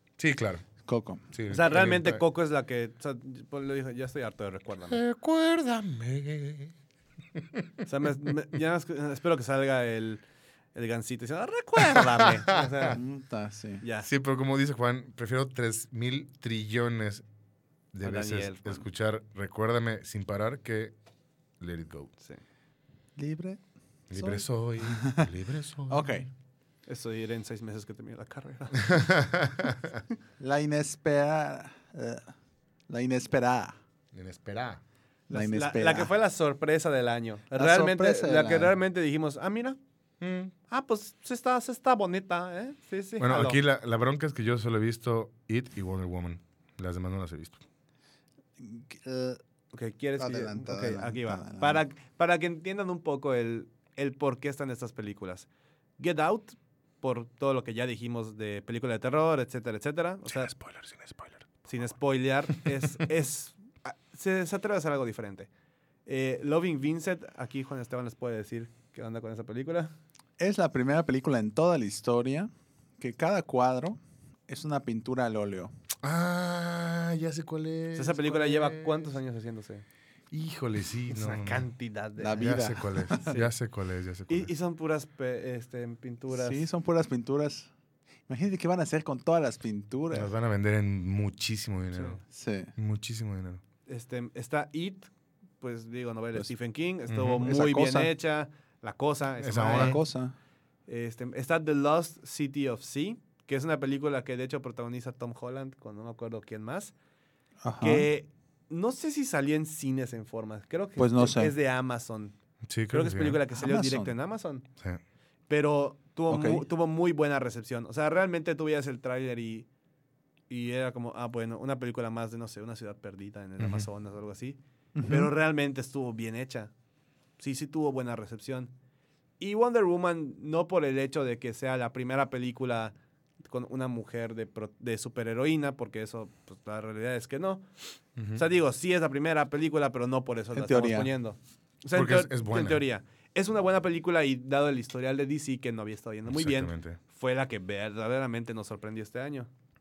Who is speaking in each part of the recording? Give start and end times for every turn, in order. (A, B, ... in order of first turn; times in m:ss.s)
0:00.2-0:00.6 A
0:00.8-0:01.2 B
0:01.3-0:02.2 A
0:01.5-0:05.0 C
0:04.9-0:06.7 A
0:07.4-0:07.7 A
0:07.9-0:10.2 C
0:10.8-0:13.0 C
0:11.8-0:12.6 A
0:12.9-0:13.8 B
0:13.8-0:14.1 C
0:14.0-0:17.2 A
0:17.9-0:21.0 A
0:18.0-0:18.8 C
0:21.6-0:22.1 A
0:23.2-0:23.6 B
0:24.1-0:26.2 A
0:24.1-0:25.3 B
0:25.9-0:26.3 B
0:26.9-0:28.9 C
0:28.8-0:30.0 A
0:30.4-0:32.3 B
0:32.9-0:33.8 B
0:34.1-0:34.8 A
0:35.3-0:39.8 C
0:35.3-0:36.1 B
0:37.5-0:38.8 B
0:40.2-0:40.5 A
0:40.7-0:43.6 C
0:43.2-0:47.6 A
0:48.6-0:49.4 B
0:49.7-0:55.5 C
0:50.2-0:51.8 B
0:56.0-1:00.5 C
1:00.3-1:01.9 A
1:01.7-1:05.5 C
1:02.5-1:02.9 A
1:06.1-1:09.9 C
1:10.4-1:15.7 B
1:16.0-1:19.1 A
1:17.9-1:19.8 C
1:20.3-1:21.6 A
1:21.1-1:22.4 C
1:22.2-1:23.4 B
1:22.4-1:24.5 A
1:24.3-1:26.6 C
1:26.3-1:27.7 B
1:28.3-1:30.3 B
1:30.1-1:32.2 A
1:31.9-1:32.2 C
1:32.3-1:32.7 B
1:32.8-1:33.6 A
1:33.9-1:40.0 C
1:37.1-1:37.5 A
1:37.4-1:38.1 B
1:39.4-1:40.0 A
1:39.7-1:40.3 B
1:40.9-1:46.9 C
1:47.6-1:48.1 B
1:47.8-1:52.4 C
1:51.0-1:51.5 B
1:52.6-1:53.4 A
1:52.9-1:54.6 C
1:53.5-1:54.1 B
1:55.5-1:59.7 C
1:56.3-1:56.6 B
2:00.5-2:06.7 C
2:03.6-2:03.9 A
2:05.0-2:05.3 B
2:07.4-2:08.7 C
2:09.4-2:12.9 C
2:13.5-2:17.7 C
2:18.2-2:18.4 A
2:18.3-2:29.5 C
2:20.5-2:21.1 B
2:21.9-2:22.8 A
2:26.3-2:27.0 A